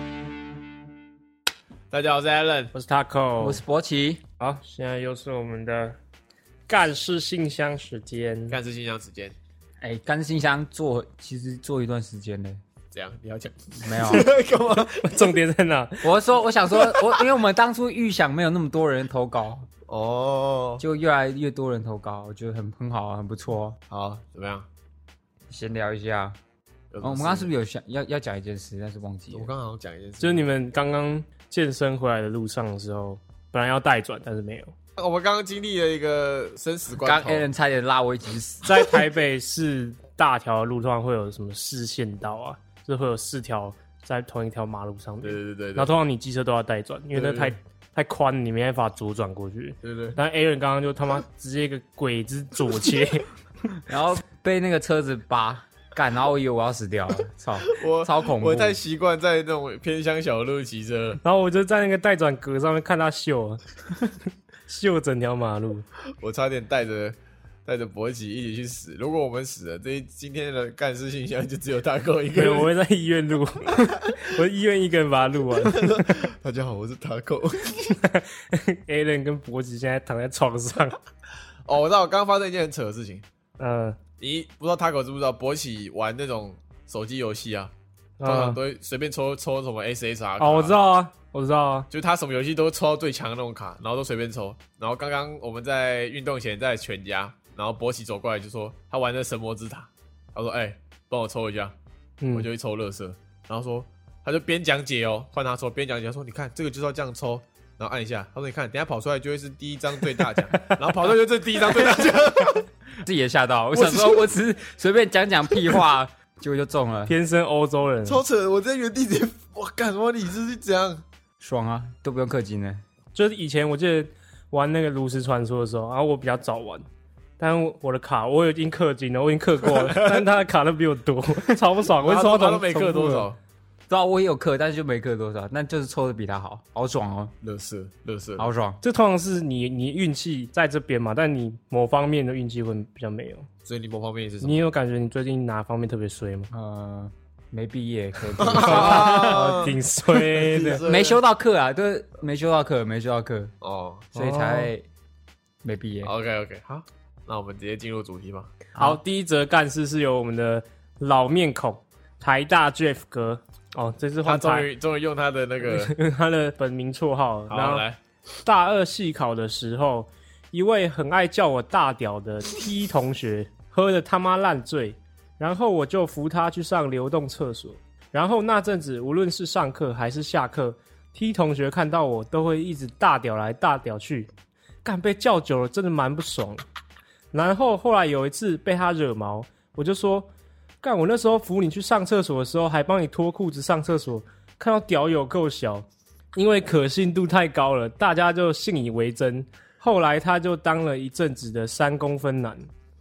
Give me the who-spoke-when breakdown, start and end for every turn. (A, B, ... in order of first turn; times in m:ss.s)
0:01.9-0:02.7 A
0:02.7-0:03.6 B
0:03.4-0:04.2 C
0:04.4-0:06.0 B
0:06.7-0:08.6 B
0:08.5-0:09.3 A
0:09.8-0:12.6 C
0:12.9-0:15.2 A
0:13.8-0:14.3 C
0:14.7-0:16.1 B
0:16.0-0:19.7 C
0:16.8-0:17.2 A
0:19.9-0:20.8 A
0:20.8-0:23.8 C
0:23.9-0:24.7 A
0:25.5-0:26.4 C
0:26.9-0:27.5 A
0:27.0-0:29.5 C
0:29.3-0:30.5 A
0:30.2-0:34.7 B
0:35.0-0:37.5 A
0:37.0-0:39.0 C
0:38.6-0:53.3 B
0:45.2-0:45.9 A
0:47.1-0:47.6 A
0:49.8-0:50.2 A
0:53.9-0:58.8 C
0:57.7-1:01.2 A
1:01.2-1:03.6 B
1:04.7-1:05.8 B
1:06.2-1:12.7 A
1:12.3-1:16.1 B
1:15.6-1:18.0 A
1:18.0-1:21.0 B
1:21.7-1:23.2 A
1:23.6-1:24.0 B
1:24.2-1:27.7 A
1:28.2-1:28.6 B
1:28.2-1:30.8 A
1:30.4-1:31.9 B
1:31.9-1:41.7 A
1:42.2-1:42.5 B
1:42.3-1:52.7 A
1:53.0-1:57.1 C
1:53.7-1:54.3 A
1:57.1-1:58.2 B
1:58.0-2:01.0 A
2:01.4-2:02.8 C
2:03.1-2:06.8 B
2:07.4-2:13.3 B
2:09.6-2:10.3 A
2:12.0-2:13.4 A
2:13.9-2:17.3 C
2:17.4-2:18.5 A
2:18.4-2:18.8 C
2:18.8-2:23.5 B
2:23.6-2:24.6 A
2:24.4-2:26.5 B
2:26.5-2:29.4 C
2:28.4-2:31.2 A
2:28.6-2:30.8 B
2:30.8-2:33.5 C
2:33.6-2:34.1 A
2:34.1-2:34.8 C
2:34.1-2:34.7 B
2:35.6-2:36.1 C
2:36.0-2:38.5 A
2:38.8-2:44.7 B
2:44.2-2:45.9 A
2:45.6-2:47.8 B
2:47.5-2:48.0 A
2:48.4-3:04.3 B
3:04.8-3:06.6 B
3:07.3-3:10.3 B
3:10.8-3:22.7 B